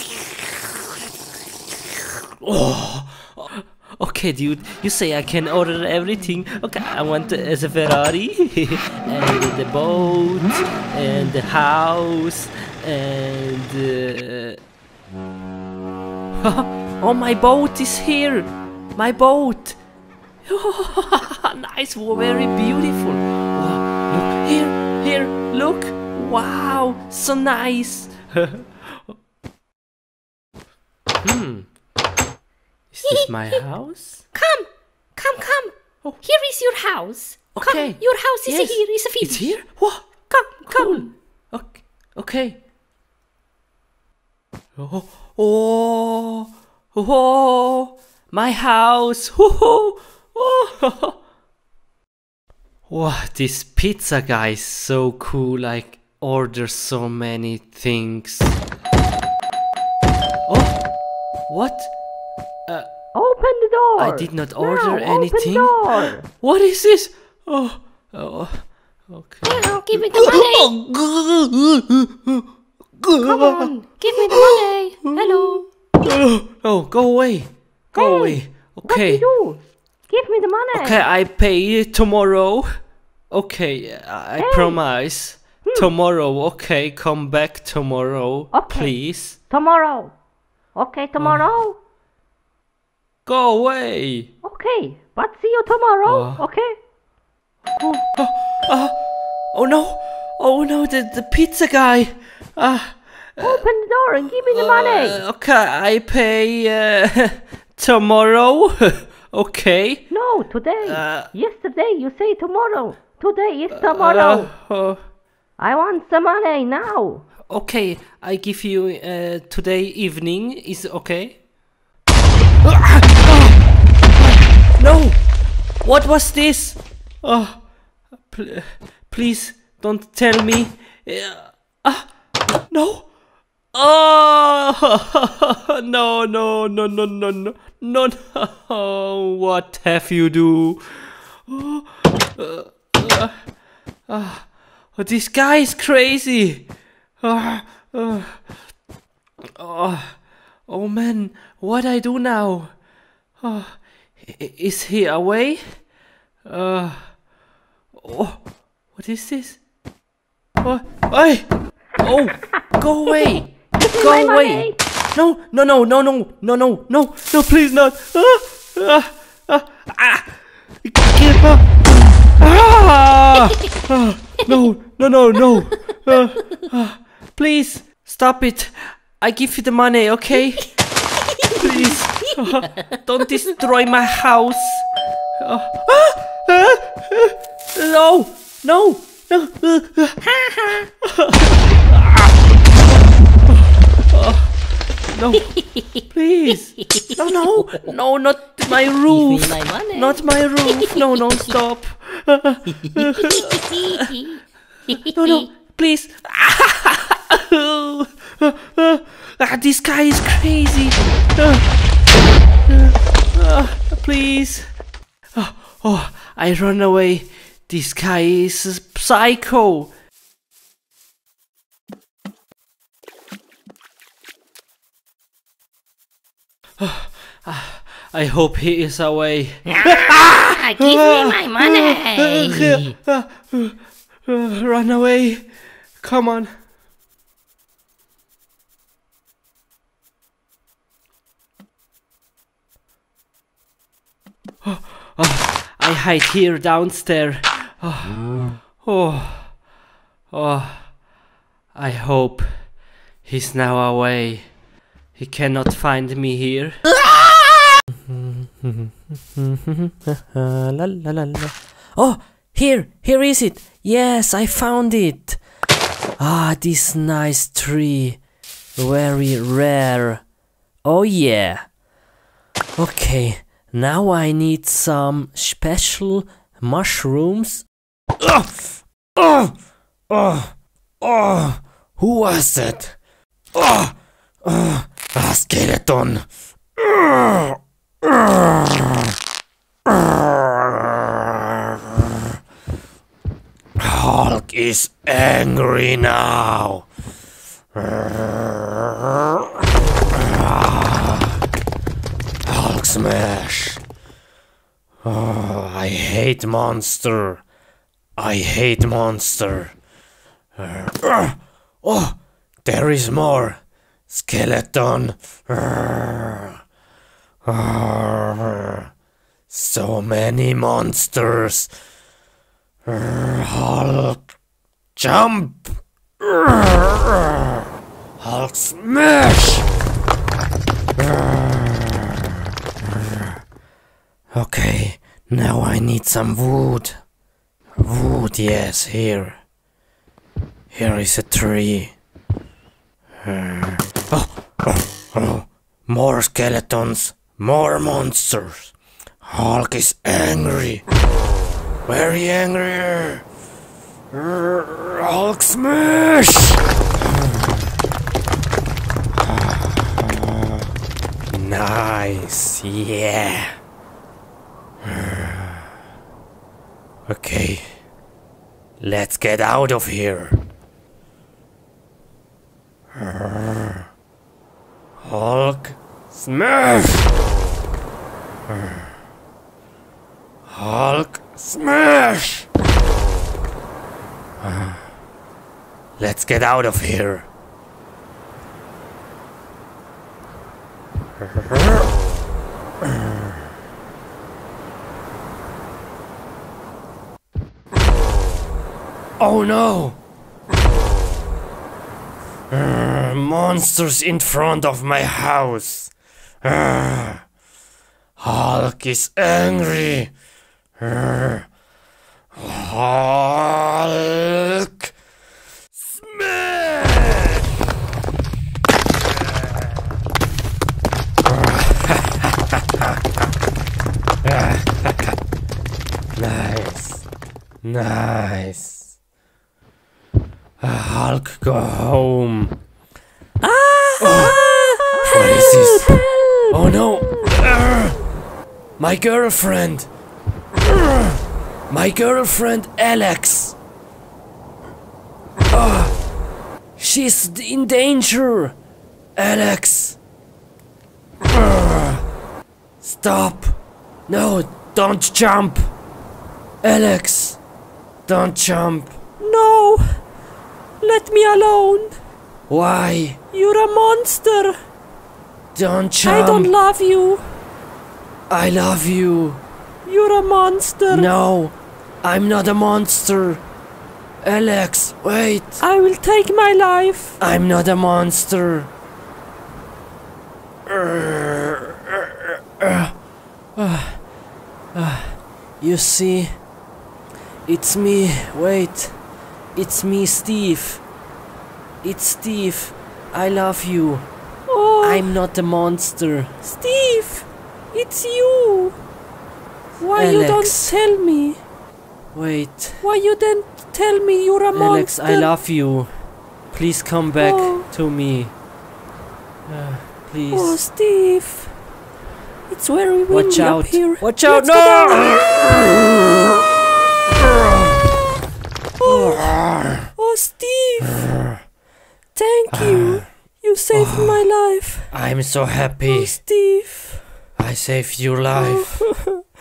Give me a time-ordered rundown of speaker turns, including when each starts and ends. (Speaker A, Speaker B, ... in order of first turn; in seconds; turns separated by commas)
Speaker A: 2.4-14.6, Speaker A: 16.3-19.8, Speaker A: 20.4-29.1, Speaker A: 31.2-31.7, Speaker A: 32.9-34.2, Speaker B: 33.0-33.6, Speaker B: 34.3-39.5, Speaker A: 37.5-42.6, Speaker B: 40.3-41.1, Speaker A: 44.8-51.2, Speaker A: 52.9-58.6, Speaker A: 60.5-60.8, Speaker A: 61.5-61.9, Speaker A: 62.7-63.0, Speaker B: 63.1-66.3, Speaker A: 64.0-79.3, Speaker B: 69.4-70.7, Speaker B: 73.2-75.7, Speaker B: 77.9-81.0, Speaker A: 80.7-82.7, Speaker A: 83.3-89.4, Speaker B: 84.4-84.8, Speaker B: 88.5-90.1, Speaker B: 90.7-91.8, Speaker A: 91.2-91.5, Speaker A: 93.2-94.3, Speaker B: 94.4-96.7, Speaker A: 96.0-96.4, Speaker A: 97.8-98.9, Speaker A: 99.5-110.1, Speaker B: 103.4-105.2, Speaker B: 110.1-114.5, Speaker A: 110.8-111.3, Speaker A: 113.7-115.0, Speaker B: 115.6-117.2, Speaker A: 117.5-121.4, Speaker A: 122.6-123.6, Speaker A: 124.6-125.2, Speaker A: 125.8-127.7, Speaker A: 128.2-132.1, Speaker A: 132.7-133.1, Speaker A: 133.7-143.4, Speaker A: 144.1-146.7, Speaker A: 147.2-148.5, Speaker A: 149.5-152.7, Speaker A: 153.4-155.8, Speaker A: 156.4-157.2, Speaker A: 157.9-159.6, Speaker A: 160.6-161.5, Speaker A: 162.0-171.7, Speaker B: 163.1-164.8, Speaker A: 172.3-180.7, Speaker B: 181.3-181.9, Speaker A: 181.5-184.9, Speaker A: 185.4-190.2, Speaker B: 190.2-190.9, Speaker A: 191.0-192.3, Speaker A: 194.1-194.5, Speaker A: 195.1-203.6, Speaker B: 195.3-196.0, Speaker B: 199.1-201.0, Speaker B: 202.9-205.5, Speaker A: 205.1-211.7, Speaker A: 212.7-214.7, Speaker A: 215.3-219.9, Speaker A: 226.8-236.5, Speaker B: 229.7-232.9, Speaker A: 244.6-249.6, Speaker A: 250.3-250.9, Speaker A: 251.7-254.5, Speaker A: 255.1-256.9, Speaker A: 258.1-265.4, Speaker A: 266.2-268.2, Speaker A: 268.8-270.2, Speaker A: 270.8-271.7, Speaker A: 272.8-277.7, Speaker A: 278.2-279.5, Speaker A: 280.1-283.0, Speaker A: 283.5-286.2, Speaker A: 286.8-289.1, Speaker A: 289.9-292.2, Speaker A: 293.8-296.9, Speaker A: 297.7-299.6, Speaker A: 300.1-301.4, Speaker A: 302.4-303.8, Speaker A: 305.0-307.4, Speaker A: 308.2-309.8, Speaker A: 310.6-316.6, Speaker A: 317.4-318.9, Speaker A: 319.5-321.7, Speaker A: 322.9-324.2, Speaker A: 324.9-327.3, Speaker A: 328.2-329.7, Speaker A: 331.0-332.1, Speaker A: 334.3-337.0, Speaker A: 337.8-339.4, Speaker A: 340.7-341.9, Speaker A: 343.2-350.8, Speaker A: 351.9-353.2, Speaker A: 354.1-356.6, Speaker A: 359.2-360.5, Speaker A: 361.3-363.6, Speaker A: 364.8-365.7, Speaker A: 367.1-367.8, Speaker A: 368.8-370.4, Speaker A: 372.9-373.9, Speaker A: 375.0-377.1, Speaker A: 378.5-378.9, Speaker A: 380.5-382.5, Speaker A: 384.4-384.9, Speaker A: 386.0-387.3, Speaker A: 391.3-391.6, Speaker A: 399.2-400.0, Speaker A: 402.5-407.2, Speaker A: 408.2-410.1, Speaker A: 410.8-411.5, Speaker A: 412.3-414.9, Speaker A: 415.8-417.4, Speaker A: 421.3-422.3, Speaker A: 424.2-424.9, Speaker A: 426.1-427.1, Speaker A: 427.6-428.9, Speaker A: 430.6-432.5, Speaker A: 433.4-436.0, Speaker B: 433.9-436.8, Speaker A: 436.5-438.0, Speaker A: 438.8-439.9, Speaker A: 440.6-443.6, Speaker A: 445.5-445.9, Speaker A: 446.8-448.6, Speaker A: 449.1-450.0, Speaker A: 451.3-452.0, Speaker A: 452.8-455.7, Speaker A: 456.6-457.4, Speaker A: 458.1-459.0, Speaker C: 459.2-460.0, Speaker C: 460.8-462.0, Speaker A: 462.5-463.2, Speaker C: 463.3-464.5, Speaker A: 465.5-466.5, Speaker C: 466.0-467.2, Speaker A: 468.3-469.4, Speaker C: 469.9-471.1, Speaker A: 470.9-473.4, Speaker A: 474.2-475.6, Speaker C: 475.6-477.2, Speaker A: 477.2-478.7, Speaker A: 480.7-483.0, Speaker A: 483.5-484.1, Speaker A: 484.7-486.4, Speaker A: 487.4-490.8, Speaker A: 491.8-494.1, Speaker C: 494.5-495.1, Speaker A: 494.8-496.3, Speaker C: 496.4-498.8, Speaker C: 499.8-501.4, Speaker A: 499.9-500.7, Speaker A: 502.1-502.9, Speaker C: 502.8-505.4, Speaker A: 504.5-505.9, Speaker A: 506.5-508.3, Speaker C: 507.2-507.7, Speaker A: 509.5-510.6, Speaker C: 510.3-511.5, Speaker C: 512.5-515.3, Speaker A: 513.1-515.7, Speaker A: 517.2-517.7, Speaker C: 518.8-519.3, Speaker A: 518.8-519.9, Speaker C: 519.9-521.0, Speaker A: 520.9-521.4, Speaker C: 522.1-524.9, Speaker A: 522.5-523.1, Speaker A: 523.7-524.2, Speaker A: 524.9-526.2, Speaker C: 525.9-527.0, Speaker A: 527.4-528.9, Speaker C: 528.3-528.8